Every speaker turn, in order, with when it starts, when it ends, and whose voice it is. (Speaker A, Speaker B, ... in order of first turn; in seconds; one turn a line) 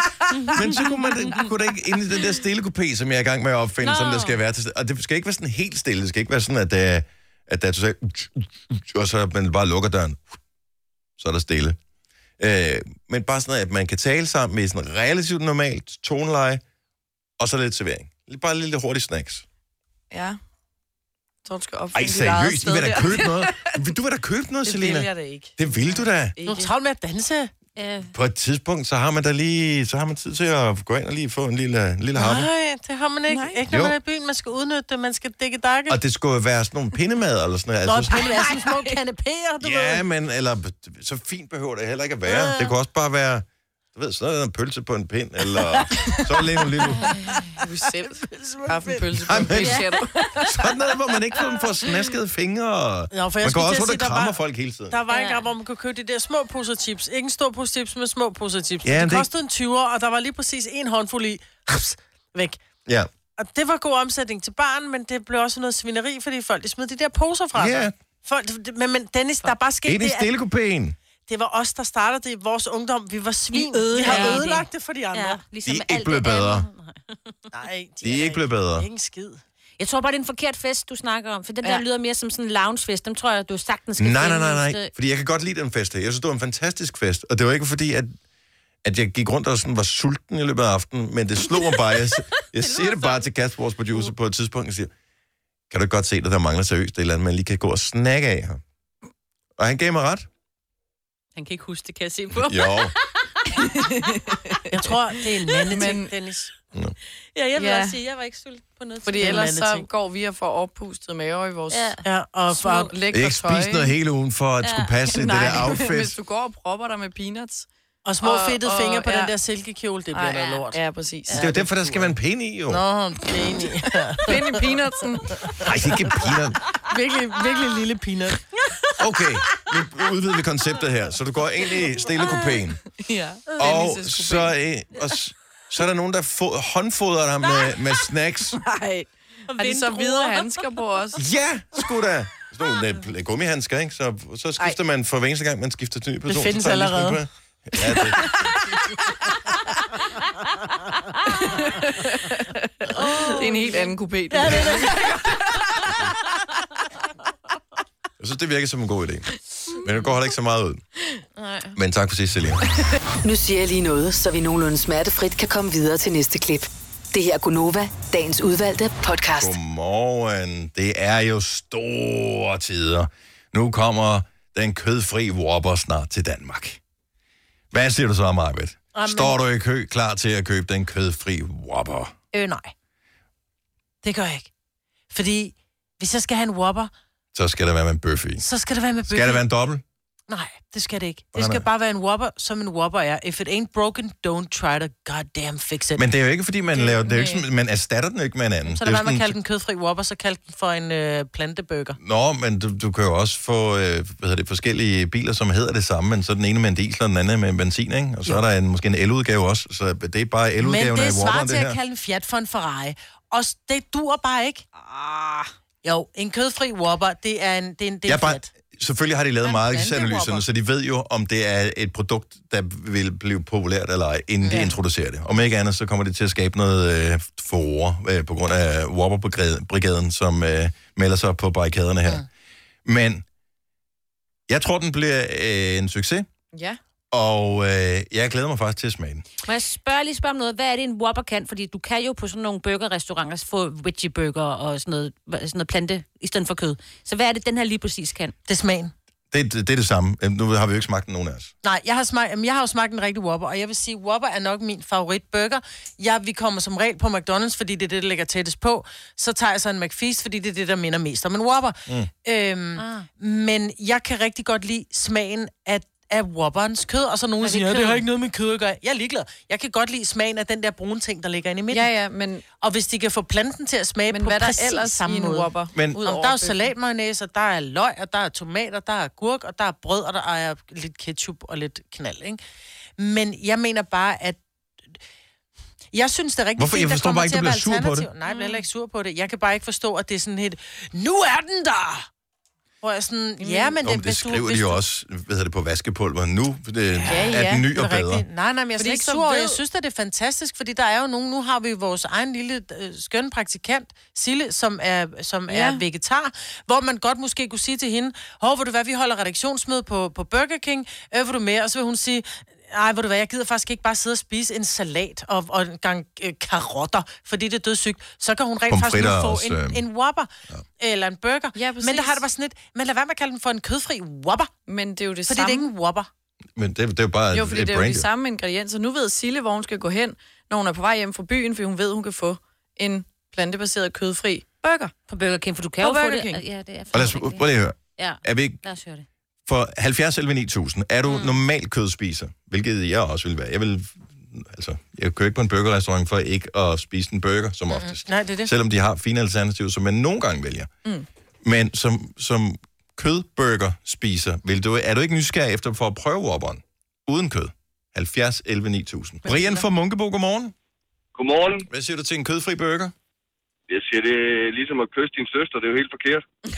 Speaker A: 0.3-1.4
Speaker B: 0.5-10.2
Speaker A: 3.8-4.4
Speaker B: 11.2-11.8
Speaker B: 12.4-16.6
Speaker B: 17.4-19.4
Speaker C: 20.1-20.4
Speaker C: 21.4-23.7
Speaker B: 21.9-26.3
Speaker C: 24.6-26.7
Speaker D: 26.4-27.5
Speaker A: 27.8-28.1
Speaker B: 28.1-32.5
Speaker D: 32.1-36.0
Speaker C: 33.3-33.6
Speaker B: 33.7-34.0
Speaker B: 35.9-38.3
Speaker D: 37.8-40.0
Speaker B: 39.6-47.2
Speaker D: 42.2-42.7
Speaker D: 46.5-49.7
Speaker C: 47.5-50.5
Speaker B: 49.2-49.9
Speaker A: 49.6-49.9
Speaker B: 50.4-55.0
Speaker D: 53.1-54.4
Speaker D: 54.9-62.6
Speaker A: 55.1-55.5
Speaker B: 58.8-59.3
Speaker D: 63.4-70.3
Speaker B: 67.5-68.0
Speaker B: 69.8-71.0
Speaker D: 71.3-75.4
Speaker A: 73.5-77.0
Speaker C: 74.0-74.4
Speaker B: 75.6-76.7
Speaker D: 77.5-79.4
Speaker B: 78.0-78.9
Speaker A: 79.8-84.9
Speaker B: 84.0-88.1
Speaker B: 88.8-94.9
Speaker A: 92.6-93.3
Speaker B: 95.7-98.6
Speaker B: 99.6-100.3
Speaker A: 101.3-104.4
Speaker B: 102.3-102.9
Speaker C: 103.5-104.6
Speaker D: 104.7-106.5
Speaker C: 105.7-106.1
Speaker A: 107.3-109.3
Speaker C: 107.5-108.0
Speaker D: 109.0-109.9
Speaker C: 109.0-112.0
Speaker A: 111.7-112.0
Speaker D: 112.0-112.9
Speaker C: 112.5-113.9
Speaker A: 112.6-112.9
Speaker B: 113.1-116.1
Speaker A: 114.6-114.9
Speaker C: 115.1-117.7
Speaker D: 118.0-120.8
Speaker C: 118.2-119.3
Speaker C: 120.1-121.7
Speaker D: 121.3-121.6
Speaker B: 121.3-122.8
Speaker D: 122.7-124.8
Speaker C: 124.2-125.3
Speaker D: 125.4-125.7
Speaker B: 125.6-126.6
Speaker D: 126.9-128.6
Speaker B: 129.0-132.8
Speaker C: 133.0-134.6
Speaker B: 133.6-138.6
Speaker C: 138.6-141.2
Speaker D: 139.5-140.3
Speaker B: 141.2-148.3
Speaker D: 146.3-147.2
Speaker C: 147.9-148.3
Speaker C: 151.2-155.3
Speaker A: 152.9-153.9
Speaker D: 153.0-153.4
Speaker D: 154.3-155.3
Speaker B: 158.2-160.8
Speaker A: 161.4-161.7
Speaker B: 161.7-162.6
Speaker E: 163.2-169.6
Speaker B: 169.3-176.8
Speaker B: 177.7-182.1
Speaker D: 178.9-179.3
Speaker D: 182.3-182.7
Speaker D: 184.0-184.5
Speaker D: 185.1-186.9
Speaker B: 187.3-188.4
Speaker D: 188.4-189.4
Speaker B: 189.1-189.8
Speaker D: 190.3-196.1
Speaker B: 191.3-191.7
Speaker B: 195.9-199.3
Speaker C: 196.7-197.4
Speaker D: 198.7-202.0
Speaker B: 202.0-211.8
Speaker D: 210.6-214.6
Speaker C: 215.1-215.5
Speaker D: 215.8-218.5
Speaker B: 218.1-232.2
Speaker C: 219.4-220.4
Speaker D: 224.4-224.8
Speaker B: 232.8-233.2
Speaker B: 234.5-236.2
Speaker C: 236.5-236.8
Speaker B: 237.1-239.2
Speaker A: 239.4-248.3
Speaker D: 248.5-248.9
Speaker B: 249.3-251.5
Speaker D: 251.6-271.9
Speaker A: 267.4-268.0
Speaker C: 271.7-272.4
Speaker D: 272.6-282.4
Speaker C: 274.1-276.7
Speaker B: 275.7-276.0
Speaker D: 283.0-284.4
Speaker D: 285.9-292.1
Speaker B: 286.6-288.1
Speaker C: 288.3-288.6
Speaker D: 292.8-294.8
Speaker C: 293.4-293.7
Speaker B: 293.8-298.2
Speaker D: 297.0-324.5
Speaker C: 297.0-297.7
Speaker C: 298.8-299.6
Speaker C: 305.5-305.8
Speaker B: 318.7-319.8
Speaker C: 321.5-322.2
Speaker C: 324.6-325.7
Speaker D: 325.3-326.1
Speaker B: 326.6-328.1
Speaker C: 327.3-334.9
Speaker A: 335.1-339.0
Speaker C: 335.8-336.4
Speaker B: 336.9-338.6
Speaker B: 339.4-350.7
Speaker A: 341.1-341.4
Speaker D: 347.7-348.5
Speaker B: 351.4-360.5
Speaker F: 361.1-361.6
Speaker B: 361.6-362.9
Speaker F: 363.7-366.2